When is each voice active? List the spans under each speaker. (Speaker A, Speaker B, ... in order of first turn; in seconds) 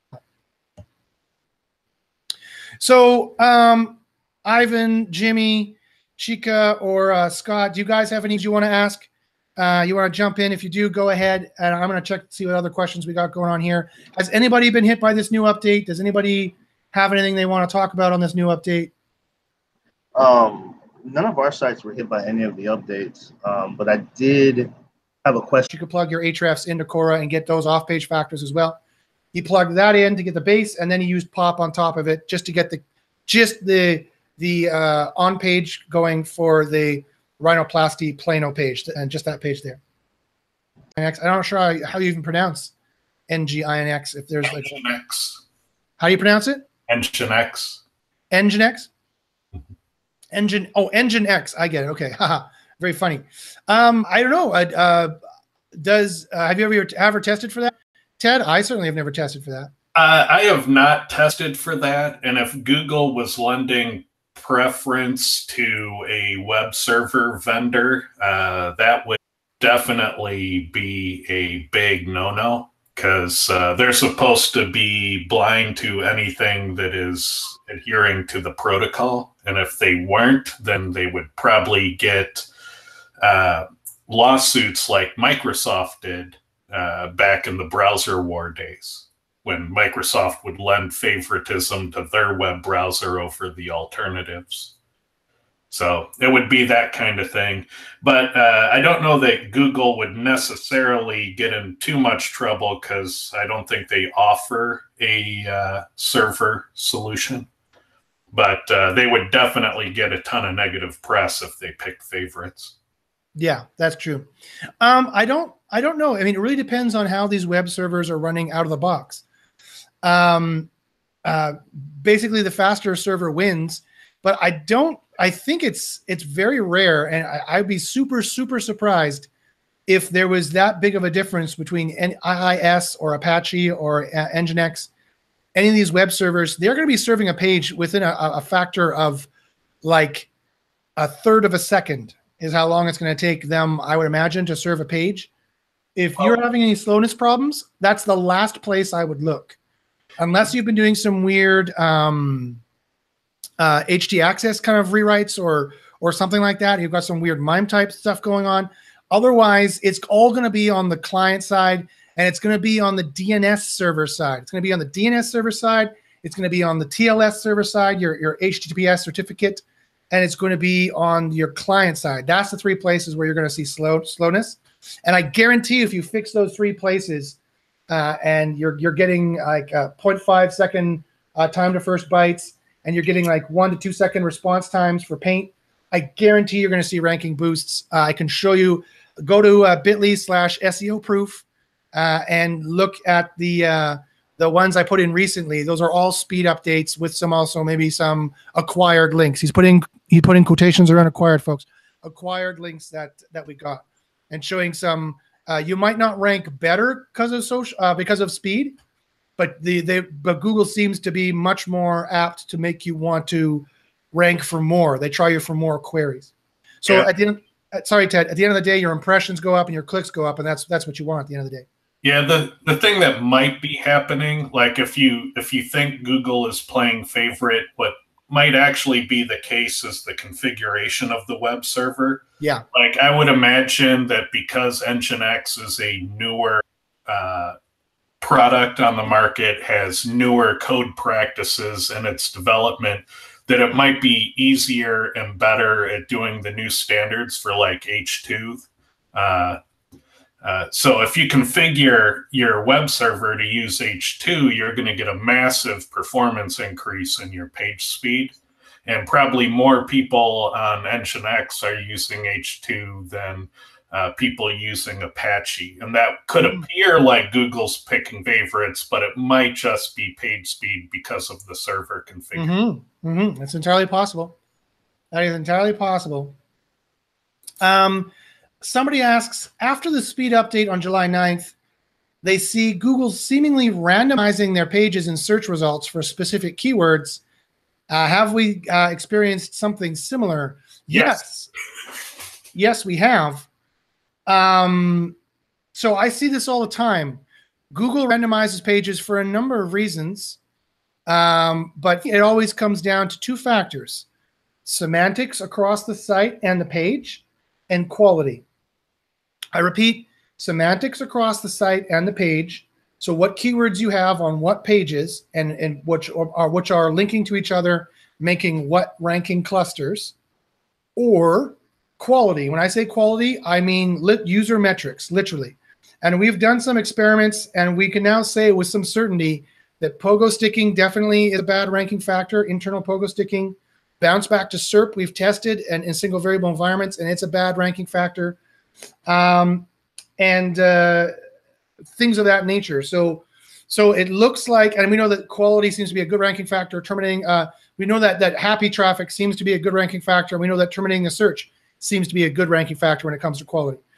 Speaker A: 2.8-18.9, 25.7-28.8, 29.3-39.8, 40.9-42.7, 43.3-45.0, 46.0-46.6, 48.3-48.9, 50.3-55.1, 55.7-59.7, 113.3-114.3, 114.8-119.2, 120.0-120.7, 121.2-129.3, 129.9-134.9, 135.5-139.3, 139.8-140.3, 141.0-145.3, 145.9-149.6, 150.2-152.6, 153.6-177.3, 177.9-208.7, 209.4-216.3, 216.8-221.7, 266.4-266.6, 272.3-274.4, 275.1-276.3, 277.6-278.1, 278.6-281.5, 282.2-287.2, 287.9-291.5, 292.5-293.5, 294.2-295.2, 295.7-300.4, 301.1-304.1, 304.6-308.4, 309.5-320.1, 320.9-338.4, 339.1-339.7, 340.2-341.1, 341.9-353.8
Speaker B: 20.1-24.7, 25.2-25.6
Speaker C: 44.4-45.4, 46.9-47.8, 59.9-82.5, 83.2-94.7, 95.7-107.5, 108.3-112.7, 222.0-237.6, 238.2-249.6, 250.4-258.3, 258.9-272.5, 290.9-291.2